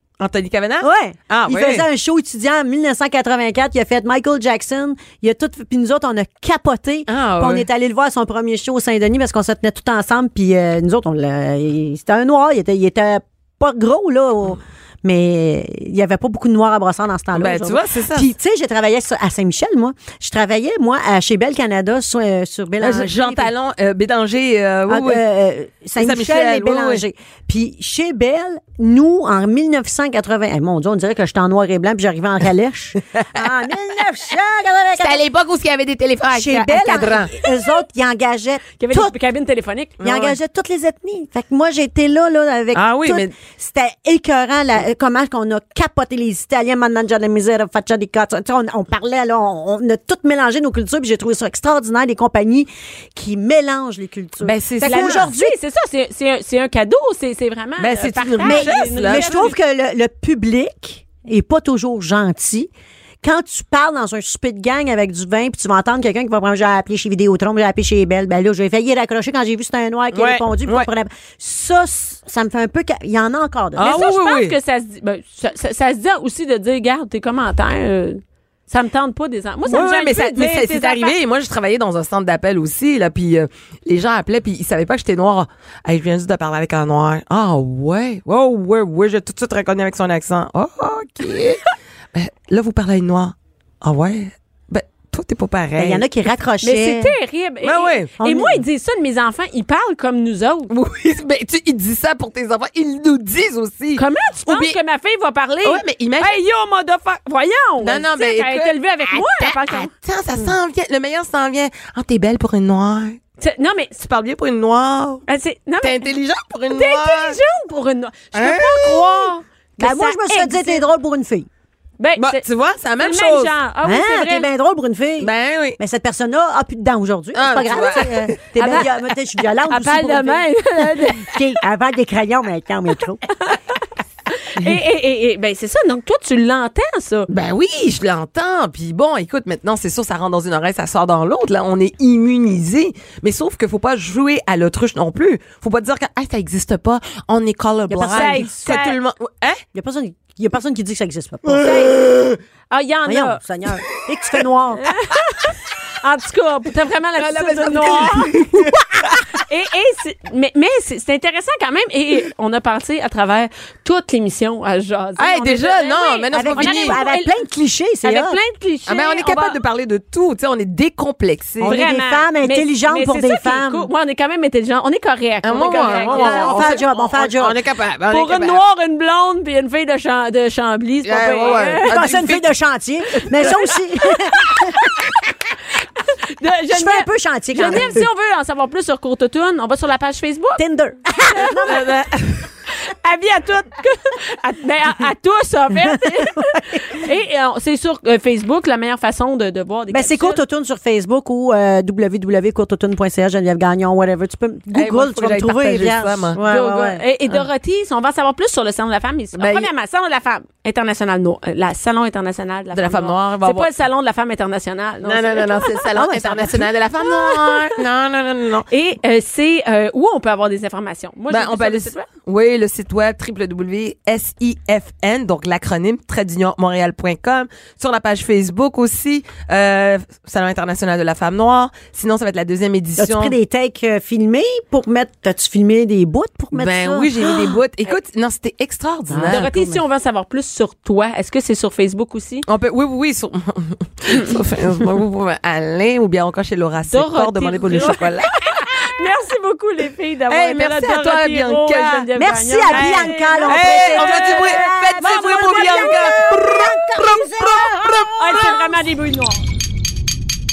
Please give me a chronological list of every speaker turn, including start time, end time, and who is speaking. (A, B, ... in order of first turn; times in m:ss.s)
0:00.2-0:01.8 A
0:00.8-0:23.5 B
0:07.1-0:07.7 A
0:17.3-0:18.3 A
0:22.8-0:25.2 A
0:24.9-0:35.2 B
0:26.0-0:27.0 A
0:33.2-0:33.4 A
0:35.0-0:37.3 A
0:36.3-0:39.1 B
0:38.8-0:40.0 C
0:40.0-0:40.3 A
0:40.0-0:55.6 B
0:42.7-0:43.3 A
0:54.4-0:55.3 A
0:54.8-0:59.6 C
0:57.8-0:59.5 A
0:58.4-1:02.7 B
1:03.2-1:14.0 B
1:10.1-1:10.9 A
1:13.8-1:14.5 A
1:13.8-1:21.1 C
1:19.7-1:31.6 A
1:32.1-1:36.1 A
1:35.8-1:37.1 B
1:36.6-1:40.7 C
1:37.6-1:38.1 A
1:38.2-1:38.6 B
1:40.7-1:44.8 A
1:44.0-1:49.9 C
1:45.6-1:46.3 A
1:47.8-1:53.2 A
1:53.4-1:54.0 C
1:54.0-1:55.2 A
1:55.3-1:56.1 C
1:55.8-1:57.4 A
1:56.7-2:00.8 C
1:58.3-1:59.3 A
1:59.8-2:01.5 B
2:02.0-2:02.4 C
2:02.2-2:03.5 A
2:03.0-2:04.5 C
2:03.8-2:10.5 B
2:05.2-2:05.8 A
2:07.3-2:08.9 A
2:08.6-2:08.8 C
2:09.7-2:11.4 C
2:11.1-2:13.2 B
2:14.3-2:17.3 C
2:17.3-2:29.6 A
2:27.9-2:28.7 B
2:28.1-2:29.0 C
2:29.7-2:31.8 B
2:31.5-2:32.4 A
2:31.6-2:32.0 C
2:32.7-2:33.4 C
2:33.0-2:34.9 B
2:34.8-2:38.3 C
2:37.2-2:39.2 A
2:39.3-2:47.3 C
2:45.2-2:47.0 A
2:46.3-2:48.4 B
2:48.0-2:49.6 C
2:48.9-2:51.8 A
2:51.6-2:53.9 B
2:51.6-2:56.8 C
2:55.4-2:58.6 A
2:55.6-2:57.6 B
2:58.1-3:02.0 C
3:01.0-3:02.4 A
3:01.8-3:04.9 B
3:04.4-3:05.0 C
3:06.0-3:10.6 C
3:06.7-3:08.1 B
3:10.6-3:11.9 B
3:11.1-3:20.4 C
3:15.8-3:16.9 B
3:19.9-3:27.0 B
3:24.7-3:26.4 A
3:26.4-3:35.9 C
3:29.3-3:29.7 A
3:32.7-3:33.7 A
3:35.0-3:38.7 A
3:35.9-3:36.7 B
3:37.0-3:37.7 C
3:38.7-3:42.1 C
3:41.3-3:53.3 A
3:53.0-3:57.6 B
3:56.5-3:59.5 A
3:59.1-3:59.8 B
3:59.3-4:02.4 C
4:02.5-4:08.3 A
4:06.9-4:16.2 C
4:10.3-4:12.1 A
4:12.2-4:18.3 B
4:12.7-4:18.7 A
4:18.1-4:19.4 C